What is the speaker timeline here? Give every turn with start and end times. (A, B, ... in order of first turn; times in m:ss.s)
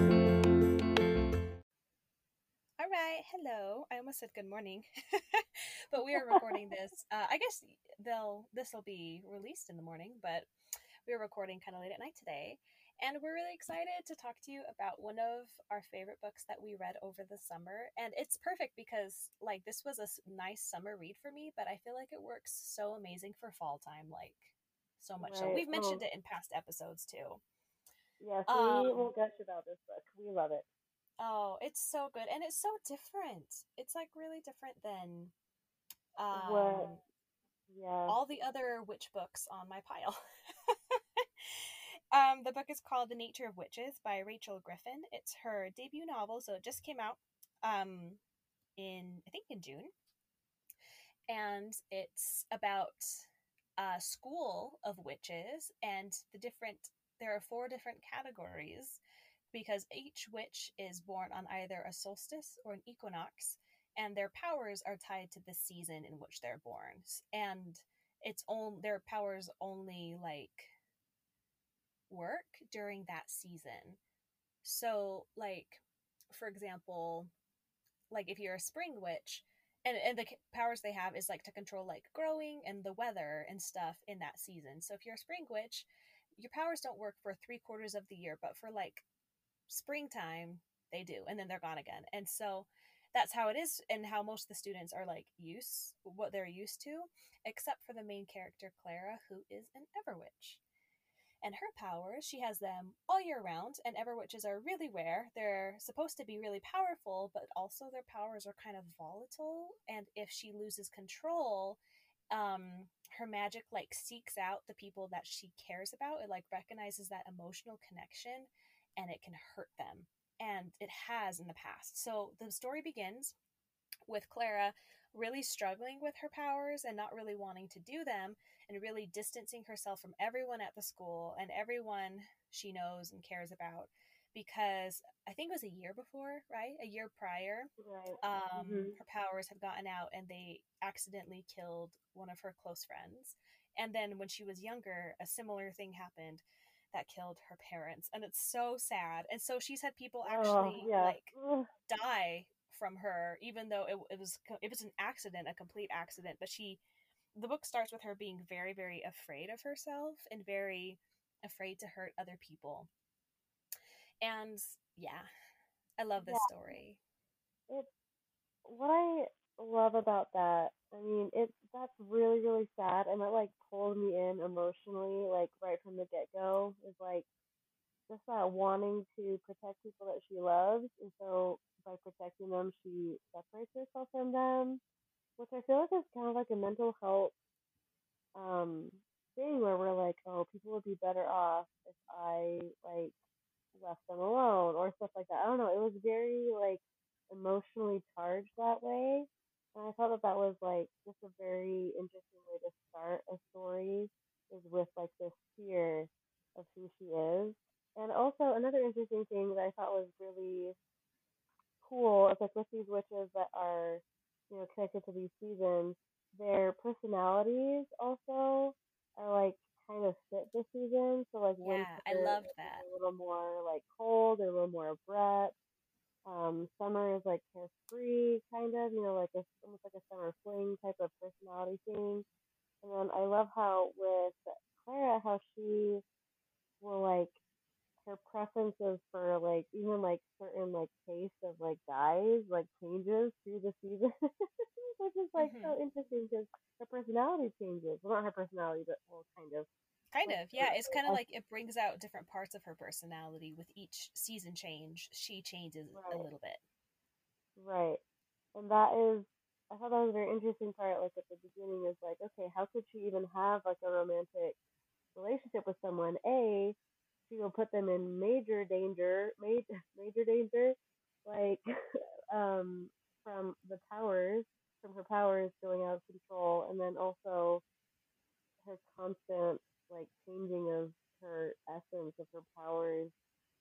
0:02.8-0:10.5 A
0:11.1-0:27.4 A
0:25.2-0:26.0 B
0:28.2-0:30.6 B
0:28.5-0:29.1 A
0:31.2-0:35.3 A
0:36.2-0:37.0 A
0:36.3-0:37.0 B
0:37.7-0:38.2 B
0:38.1-0:48.2 A
0:48.8-0:49.9 A
0:51.3-0:59.0 A
0:59.5-1:10.7 A
1:12.1-1:14.0 A
1:14.6-1:17.3 A
1:18.1-1:29.0 A
1:29.7-1:40.6 A
1:41.4-1:51.8 A
1:52.3-2:03.4 A
2:04.1-2:31.4 A
2:17.8-2:19.0 B
2:30.2-2:31.7 B
2:31.9-2:36.8 A
2:37.3-2:42.9 A
2:44.2-2:45.3 A
2:46.0-2:47.0 A
2:46.2-2:46.5 B
2:48.6-2:57.3 B
2:58.1-3:04.8 B
3:05.4-3:07.4 B
3:08.4-3:13.1 B
3:13.7-3:30.8 B
3:31.8-3:45.6 B
3:41.6-3:42.8 A
3:46.2-3:52.3 B
3:52.8-3:56.0 B
3:56.8-3:57.4 B
3:58.0-4:04.1 B
4:04.8-4:09.7 B
4:05.4-4:05.8 A
4:10.1-4:16.6 A
4:10.2-4:11.2 B
4:15.9-4:16.3 B
4:17.6-4:18.0 B
4:18.6-4:24.6 B
4:25.2-4:26.8 B
4:27.3-4:37.6 B
4:38.6-4:43.1 B